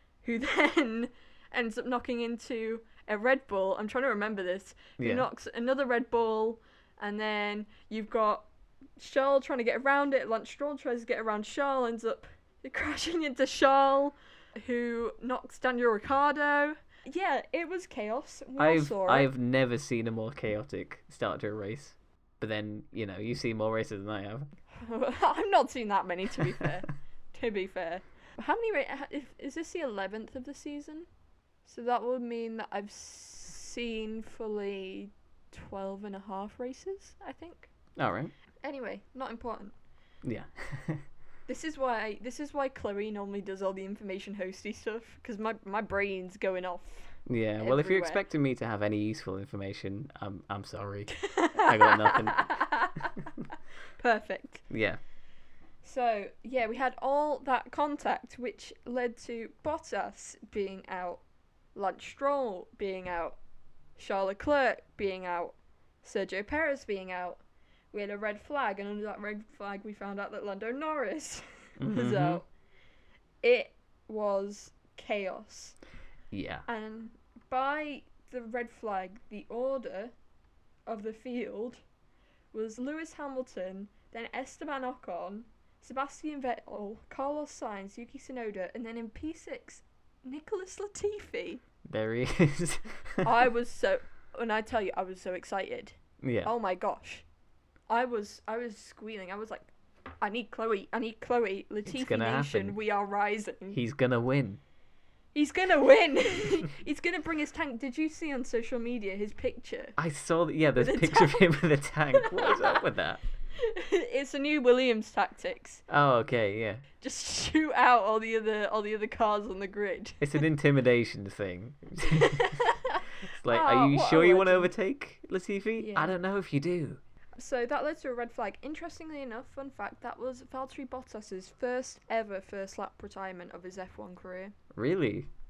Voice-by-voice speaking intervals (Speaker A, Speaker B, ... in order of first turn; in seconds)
Speaker A: 0.2-8.5, 9.0-19.3, 24.7-31.1, 31.6-37.7, 38.6-39.7, 41.5-48.2, 51.1-53.3, 54.0-54.7, 55.8-63.4, 64.0-72.5, 73.4-75.8, 76.7-80.1, 80.8-81.8, 82.5-91.6, 93.2-97.2, 97.9-103.8, 105.3-110.0, 110.8-111.5, 112.1-112.8, 113.5-115.8, 117.0-120.4, 122.0-124.7, 125.8-126.2, 127.4-134.5
Speaker B: 5.0-5.3, 18.6-24.5, 38.0-38.3, 40.2-41.0, 47.3-52.8, 54.7-55.0, 71.8-72.4, 76.3-76.6, 91.8-93.3, 96.2-96.5, 101.8-102.8, 103.7-104.6, 110.0-113.2, 115.9-116.8, 120.2-122.6, 123.3-127.0, 134.7-135.3